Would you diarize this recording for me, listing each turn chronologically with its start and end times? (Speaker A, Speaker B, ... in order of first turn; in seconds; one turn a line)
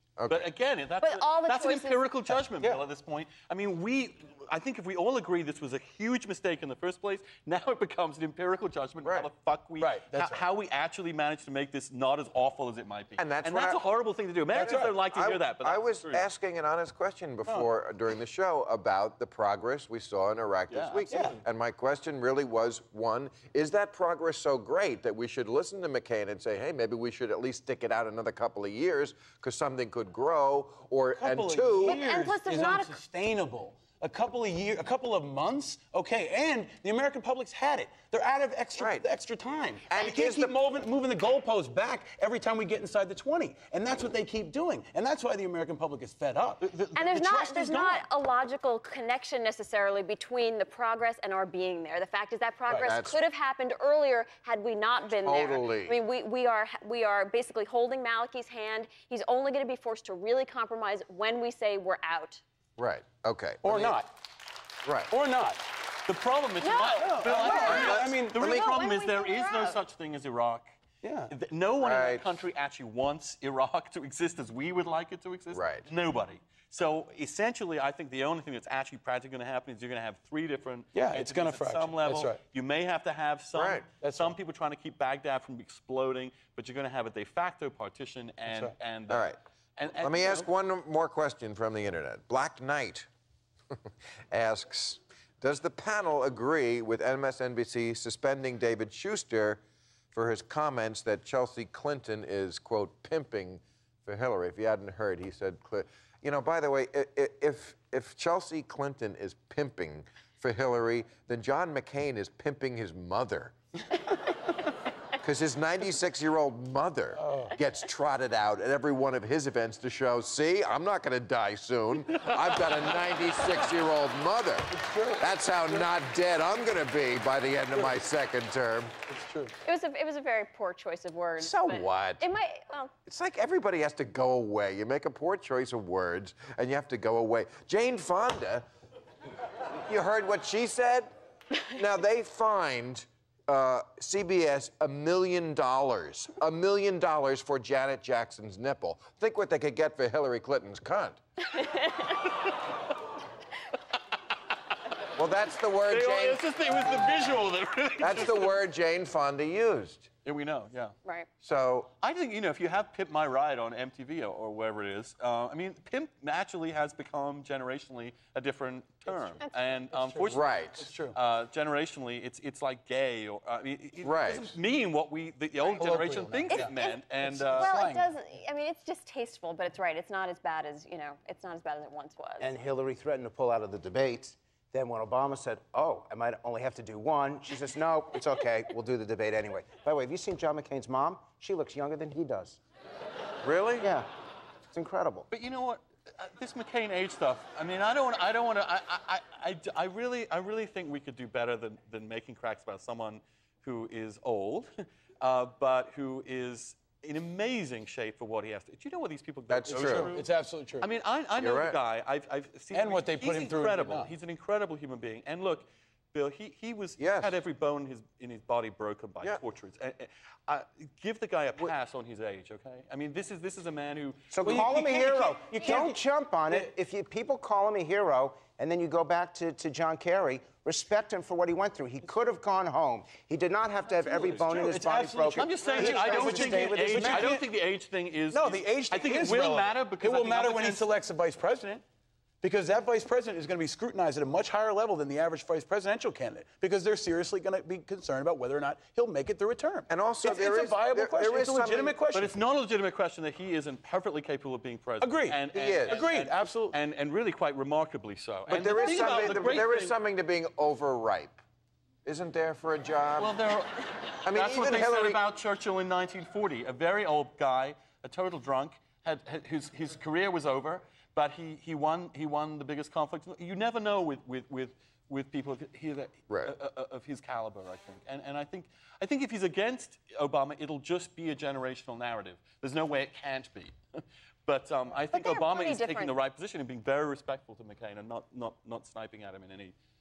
Speaker A: 0.2-0.5
Speaker B: 0.3-16.3
Speaker C: 1.0-2.1
Speaker D: 2.4-2.8
Speaker A: 9.0-9.3
Speaker D: 9.8-10.4
Speaker A: 13.2-13.8
Speaker D: 14.5-15.0
Speaker A: 14.6-32.0
Speaker B: 20.7-21.4
Speaker D: 21.1-21.4
Speaker D: 31.1-48.0
Speaker C: 31.9-33.0
Speaker A: 38.8-39.0
Speaker A: 39.9-40.6
Speaker B: 46.6-47.1
Speaker C: 47.0-62.4
Speaker A: 52.8-53.2
Speaker A: 55.2-56.0
Speaker A: 62.8-64.0
Speaker D: 63.6-64.1
Speaker A: 64.8-65.1
Speaker D: 65.1-65.7
Speaker B: 66.1-70.7
Speaker C: 66.6-69.8
Speaker D: 67.0-68.5
Speaker A: 67.5-68.7
Speaker D: 71.0-71.3
Speaker B: 71.3-90.5
Speaker A: 71.8-72.3
Speaker A: 75.5-75.9
Speaker D: 80.9-82.4
Speaker A: 83.5-83.8
Speaker D: 84.0-84.3
Speaker D: 88.5-88.7
Speaker A: 89.1-89.4
Speaker A: 90.0-93.1
Speaker A: 94.3-99.6
Speaker A: 100.1-113.5
Speaker A: 115.2-128.9
Speaker D: 117.2-117.5
Speaker D: 124.7-125.9
Speaker D: 129.1-129.6
Speaker C: 129.7-132.9
Speaker A: 131.4-132.3
Speaker A: 133.1-138.7
Speaker A: 139.7-141.1
Speaker A: 141.7-151.2
Speaker C: 151.5-152.1
Speaker A: 155.2-156.5
Speaker B: 155.9-158.6
Speaker A: 158.0-160.1
Speaker B: 160.2-161.0
Speaker A: 161.4-161.9
Speaker B: 162.0-170.4
Speaker D: 169.1-171.2
Speaker A: 170.3-170.9
Speaker B: 171.0-177.7
Speaker A: 174.0-174.6
Speaker D: 175.7-178.1
Speaker C: 176.5-177.0
Speaker C: 177.5-182.5
Speaker E: 182.4-192.6
Speaker A: 193.4-193.9
Speaker E: 193.8-194.1
Speaker E: 194.7-195.3
Speaker B: 195.3-210.3
Speaker A: 209.5-210.2
Speaker D: 209.7-210.9
Speaker B: 210.8-224.5
Speaker A: 211.4-211.8
Speaker D: 212.7-214.1
Speaker A: 217.0-217.4
Speaker E: 224.3-237.3
Speaker D: 224.4-226.7
Speaker D: 234.0-237.5
Speaker B: 235.4-240.8
Speaker D: 238.3-241.8
Speaker D: 242.4-252.4
Speaker A: 249.9-252.0
Speaker B: 252.1-260.0
Speaker D: 255.0-256.8
Speaker A: 255.5-256.1
Speaker A: 258.5-261.4
Speaker A: 262.1-263.4
Speaker B: 263.2-289.8
Speaker A: 264.2-265.2
Speaker A: 276.3-276.5
Speaker C: 285.1-286.1